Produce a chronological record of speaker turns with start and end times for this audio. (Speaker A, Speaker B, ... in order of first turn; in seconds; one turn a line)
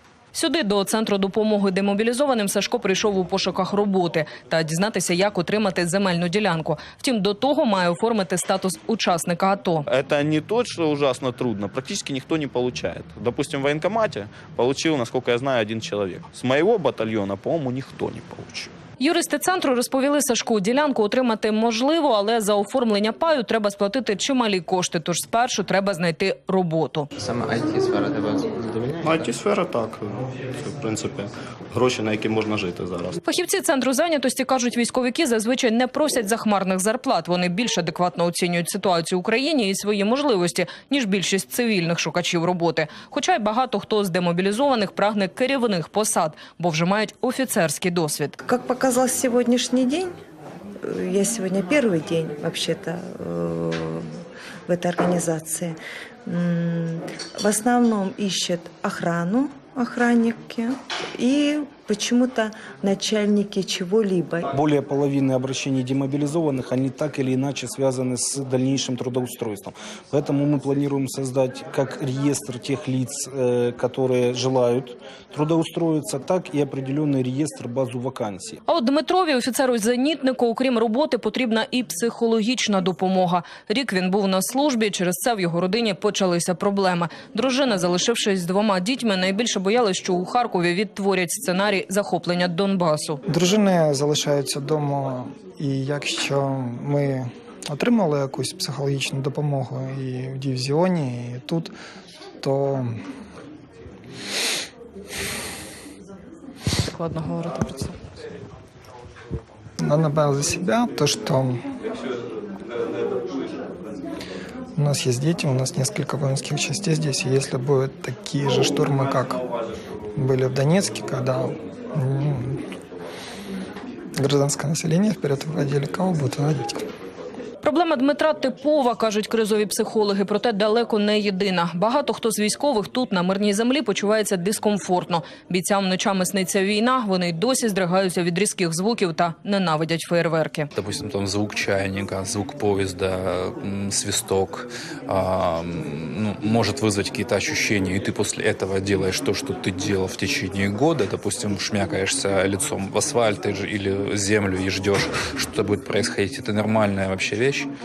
Speaker A: 0.3-9.9
Speaker B: 9.9-18.7
Speaker A: 19.0-27.1
Speaker C: 27.2-29.3
Speaker D: 29.0-33.2
Speaker A: 33.2-48.4
Speaker E: 48.5-50.1
Speaker E: 50.9-54.1
Speaker E: 54.7-64.5
Speaker F: 64.5-78.6
Speaker A: 78.7-93.2
Speaker G: 93.3-101.7
Speaker G: 102.4-102.9
Speaker A: 106.8-107.9
Speaker G: 109.8-111.6
Speaker G: 114.8-119.4
Speaker G: 120.2-122.6
Speaker G: 124.2-126.8
Speaker A: 127.6-140.7
Speaker H: 140.7-157.7